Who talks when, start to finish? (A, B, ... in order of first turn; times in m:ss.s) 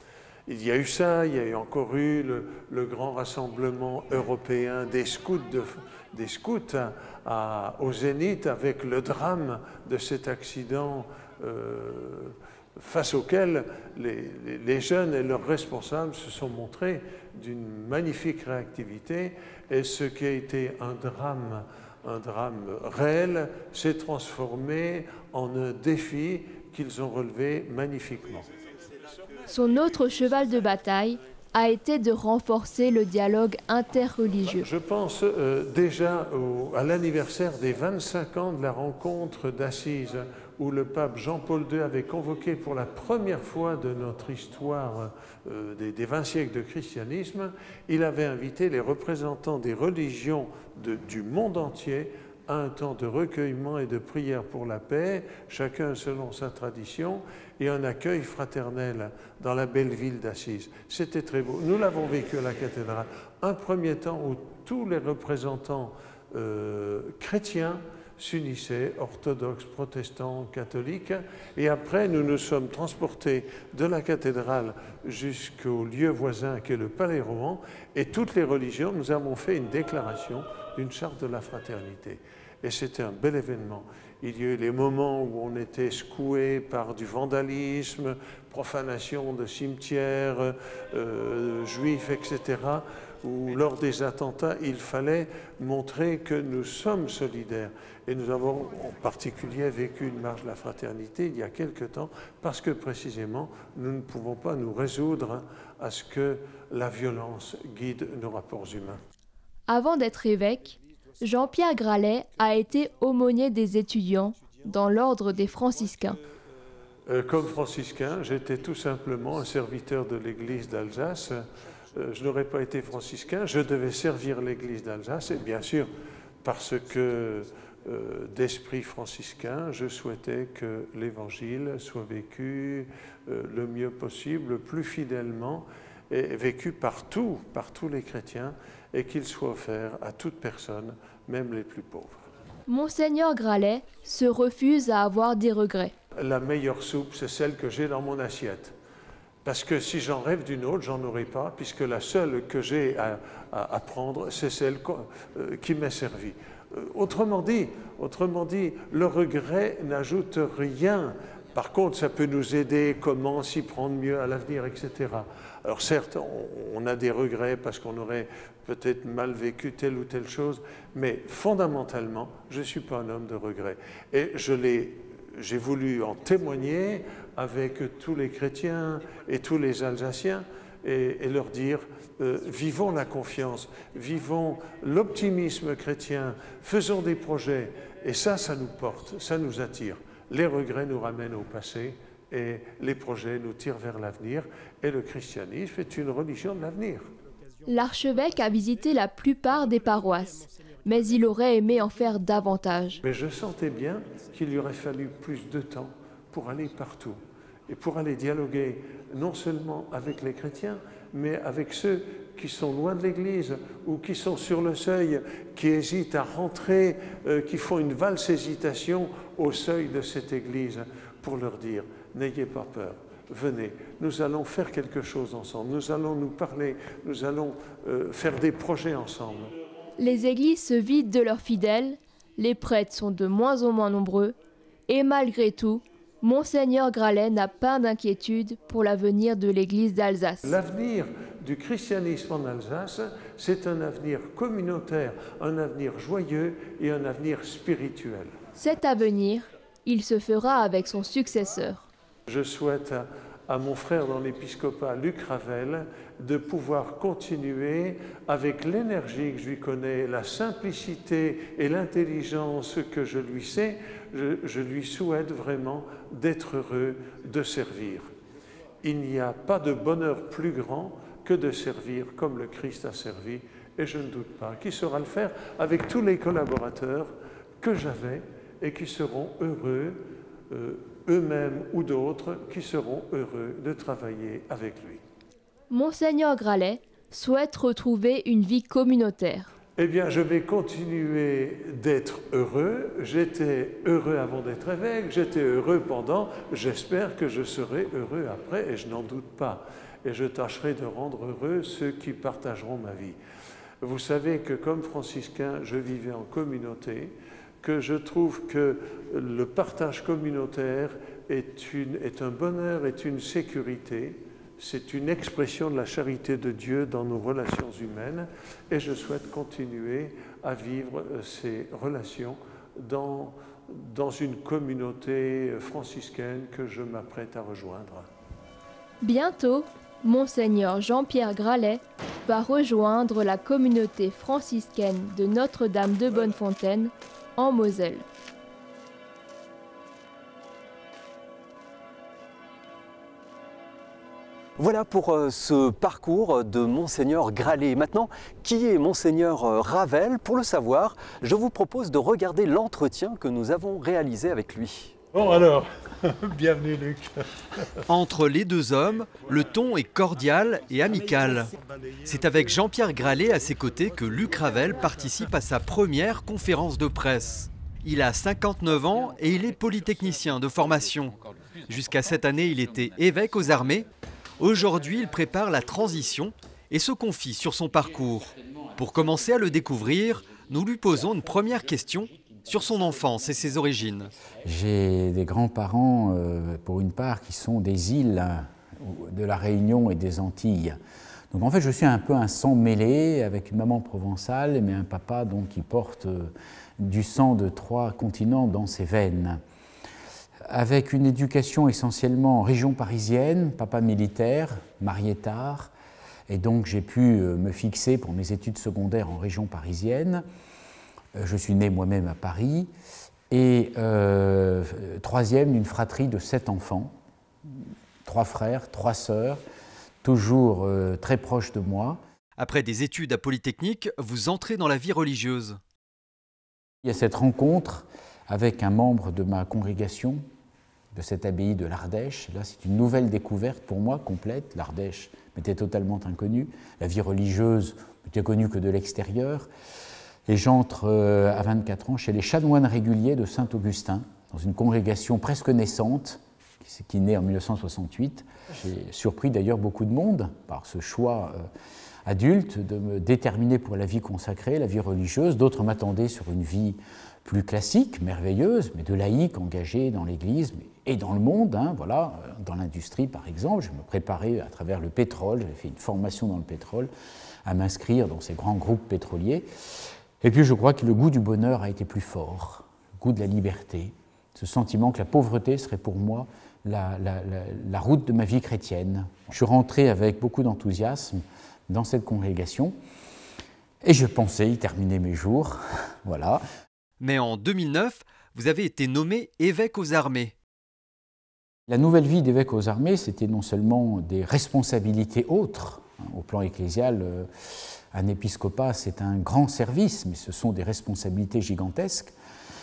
0:00.5-0:28.5 A
0:29.5-0:34.7 B
0:34.5-1:49.0 A
1:49.7-1:56.2 B
1:57.1-2:01.4 A
2:02.0-2:05.9 A
2:06.4-2:22.2 A
2:22.7-2:25.9 B
2:26.2-2:28.7 A
2:29.4-3:17.1 A
3:17.7-3:23.0 B
3:23.0-3:49.5 A
3:50.0-3:54.4 B
3:54.9-4:00.5 B
4:00.4-4:08.4 A
4:08.6-4:11.9 B
4:12.3-4:28.1 A
4:28.8-4:45.0 A
4:45.7-4:49.5 B
4:49.8-5:03.2 A
5:03.8-5:28.1 A
5:29.0-5:38.1 B
5:44.6-5:55.0 C
5:55.1-5:57.7 A
5:57.9-6:01.5 C
6:02.0-6:13.9 C
6:14.4-6:24.1 C
6:24.4-6:30.8 D
6:31.3-6:39.4 D
6:40.5-6:45.7 D
6:46.3-6:50.2 D
6:51.2-6:52.7 D
6:53.3-6:56.9 D
6:57.5-6:59.4 D
7:00.0-7:02.0 D
7:02.4-7:05.6 C
7:06.8-7:10.2 D
7:10.9-7:19.5 D
7:20.3-7:31.5 D
7:32.1-7:46.9 D
7:47.4-7:49.5 D
7:50.2-8:02.8 D
8:03.8-8:06.4 D
8:07.0-8:10.3 C
8:11.7-8:17.3 D
8:17.9-8:22.2 D